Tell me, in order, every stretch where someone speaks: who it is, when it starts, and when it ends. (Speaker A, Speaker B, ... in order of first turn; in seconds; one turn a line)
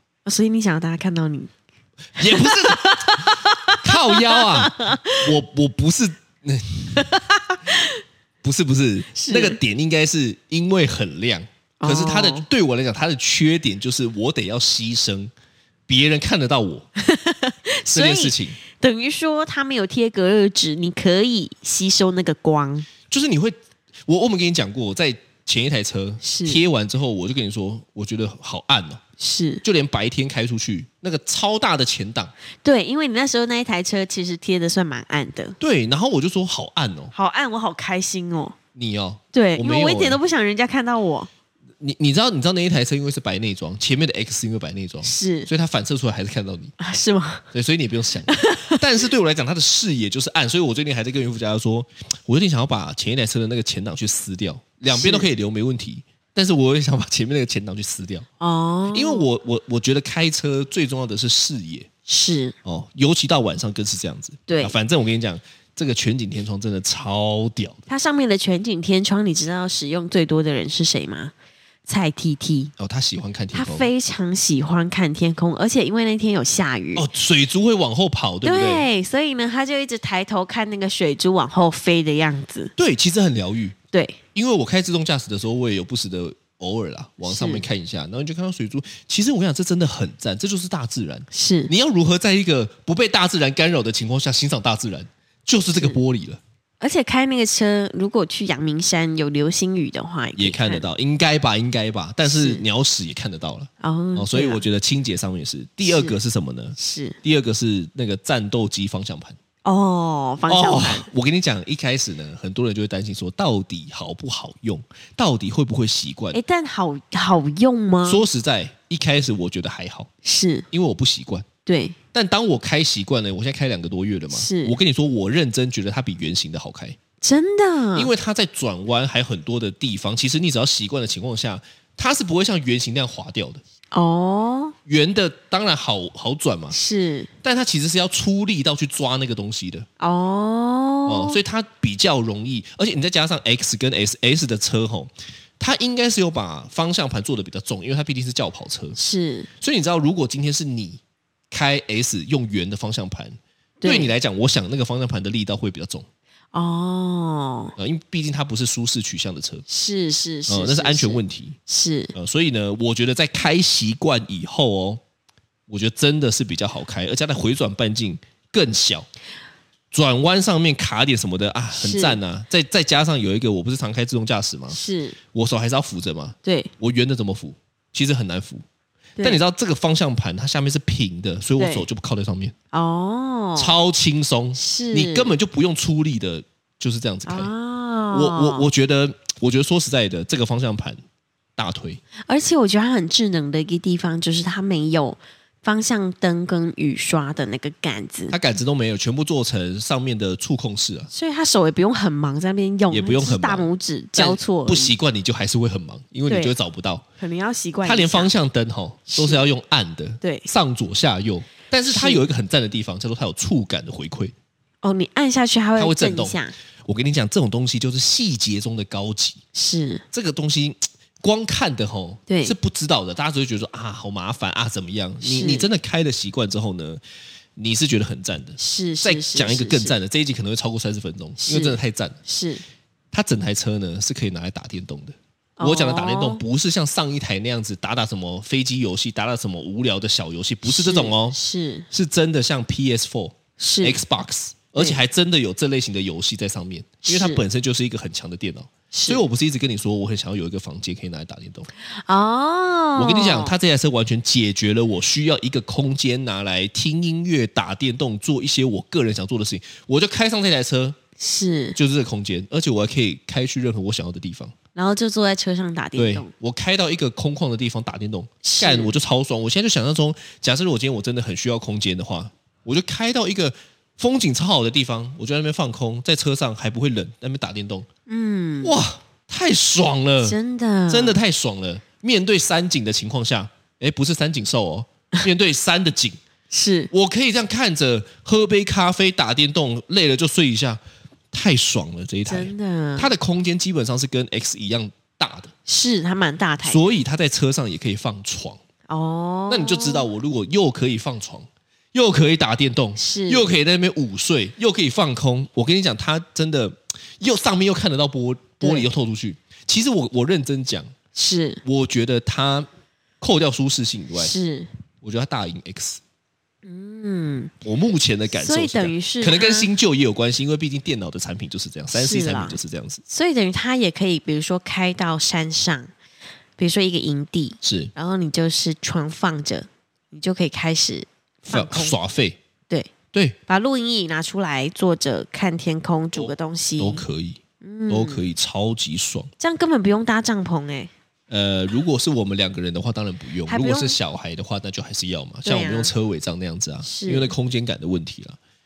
Speaker A: 0.3-1.5
Speaker A: 2.2-5.2
Speaker B: 2.2-7.1
Speaker A: 7.0-8.0
Speaker B: 8.4-15.3
Speaker A: 9.1-9.6
Speaker A: 11.8-12.5
Speaker B: 15.9-16.9
Speaker A: 17.0-22.9
Speaker B: 17.9-18.6
Speaker B: 23.1-29.0
Speaker A: 26.2-26.6
Speaker A: 29.2-29.6
Speaker B: 29.6-32.3
Speaker A: 32.6-35.6
Speaker B: 35.6-37.1
Speaker A: 37.1-38.5
Speaker B: 38.8-40.2
Speaker A: 39.3-41.3
Speaker B: 41.8-46.8
Speaker A: 45.0-45.5
Speaker A: 46.8-47.5
Speaker B: 47.5-58.3
Speaker A: 48.3-48.8
Speaker A: 54.9-55.3
Speaker A: 58.4-59.3
Speaker B: 58.9-61.9
Speaker A: 62.1-62.5
Speaker B: 62.6-67.8
Speaker A: 64.5-64.8
Speaker A: 67.9-71.3
Speaker A: 71.9-72.7
Speaker B: 72.8-73.9
Speaker A: 73.5-77.0
Speaker B: 77.0-78.9
Speaker A: 78.4-82.7
Speaker B: 82.8-83.8
Speaker A: 83.9-84.2
Speaker B: 84.3-96.4
Speaker A: 87.2-87.6
Speaker A: 91.3-91.7
Speaker A: 96.8-100.8
Speaker B: 100.4-109.4
Speaker A: 102.3-102.6
Speaker A: 103.8-104.6
Speaker A: 105.8-106.2
Speaker A: 106.8-107.2
Speaker A: 109.6-111.1
Speaker B: 110.5-116.4
Speaker A: 116.3-118.2
Speaker B: 118.1-120.1
Speaker A: 120.2-120.7
Speaker B: 120.7-121.5
Speaker A: 121.7-122.0
Speaker B: 122.1-127.0
Speaker A: 124.3-124.8
Speaker A: 127.2-128.1
Speaker B: 128.0-133.6
Speaker A: 133.9-134.8
Speaker B: 134.9-136.8
Speaker A: 136.7-137.3
Speaker B: 137.4-139.9
Speaker A: 140.0-141.4
Speaker B: 141.1-149.0
Speaker A: 149.0-149.5
Speaker B: 149.6-156.1
Speaker A: 153.8-154.1
Speaker A: 156.5-157.7
Speaker B: 157.8-159.6
Speaker A: 159.7-162.1
Speaker B: 160.5-161.6
Speaker B: 162.1-165.0
Speaker B: 165.7-169.1
Speaker B: 169.9-174.8
Speaker A: 171.7-172.2
Speaker A: 174.7-175.2
Speaker B: 175.3-178.6
Speaker A: 176.4-176.7
Speaker B: 179.2-182.5
Speaker A: 181.6-181.9
Speaker A: 182.7-183.7
Speaker B: 183.6-187.5
Speaker A: 184.6-185.3
Speaker A: 187.3-188.7
Speaker B: 188.1-191.0
Speaker B: 191.6-192.0
Speaker A: 192.3-198.4
Speaker B: 198.3-201.1
Speaker A: 201.1-204.9
Speaker B: 202.9-207.1
Speaker A: 206.3-206.5
Speaker A: 207.2-208.3
Speaker B: 207.8-214.3
Speaker A: 209.1-209.4
Speaker A: 210.2-210.5
Speaker A: 211.9-212.3
Speaker A: 214.8-216.5
Speaker B: 215.8-219.4
Speaker A: 219.6-220.0
Speaker B: 220.1-227.0
Speaker A: 222.3-222.5
Speaker A: 225.2-225.7
Speaker B: 227.6-232.2
Speaker A: 228.6-230.0
Speaker A: 231.4-232.6
Speaker B: 233.1-241.4
Speaker A: 235.6-236.4
Speaker A: 240.6-241.9
Speaker B: 241.9-251.7
Speaker A: 243.6-244.0
Speaker A: 247.1-247.4
Speaker A: 248.9-249.2
Speaker A: 252.1-253.5
Speaker B: 252.9-261.0
Speaker A: 261.2-261.8
Speaker B: 261.8-264.5
Speaker A: 264.8-266.3
Speaker B: 266.0-277.9
Speaker A: 268.4-268.9
Speaker A: 278.1-278.8
Speaker B: 278.6-280.4
Speaker A: 280.2-281.2
Speaker B: 280.9-286.2
Speaker A: 286.5-286.9
Speaker B: 286.9-290.8
Speaker B: 291.3-295.5
Speaker A: 292.3-293.1
Speaker A: 295.7-296.8
Speaker B: 296.6-298.6
Speaker A: 298.9-300.1
Speaker B: 299.5-310.9
Speaker A: 303.0-303.5
Speaker A: 308.6-308.9
Speaker A: 311.1-311.6
Speaker B: 311.6-312.7
Speaker B: 313.2-314.3
Speaker A: 314.2-314.7
Speaker B: 315.0-316.0
Speaker A: 316.6-317.5
Speaker B: 317.6-323.0
Speaker A: 318.4-319.7
Speaker A: 321.9-325.9
Speaker A: 326.6-332.0
Speaker B: 327.6-327.9
Speaker B: 331.4-332.4
Speaker A: 333.5-337.0
Speaker B: 336.1-339.3
Speaker A: 337.6-338.3
Speaker A: 339.4-340.9
Speaker B: 341.3-348.4
Speaker A: 343.4-344.0
Speaker A: 345.4-345.9
Speaker A: 346.8-347.3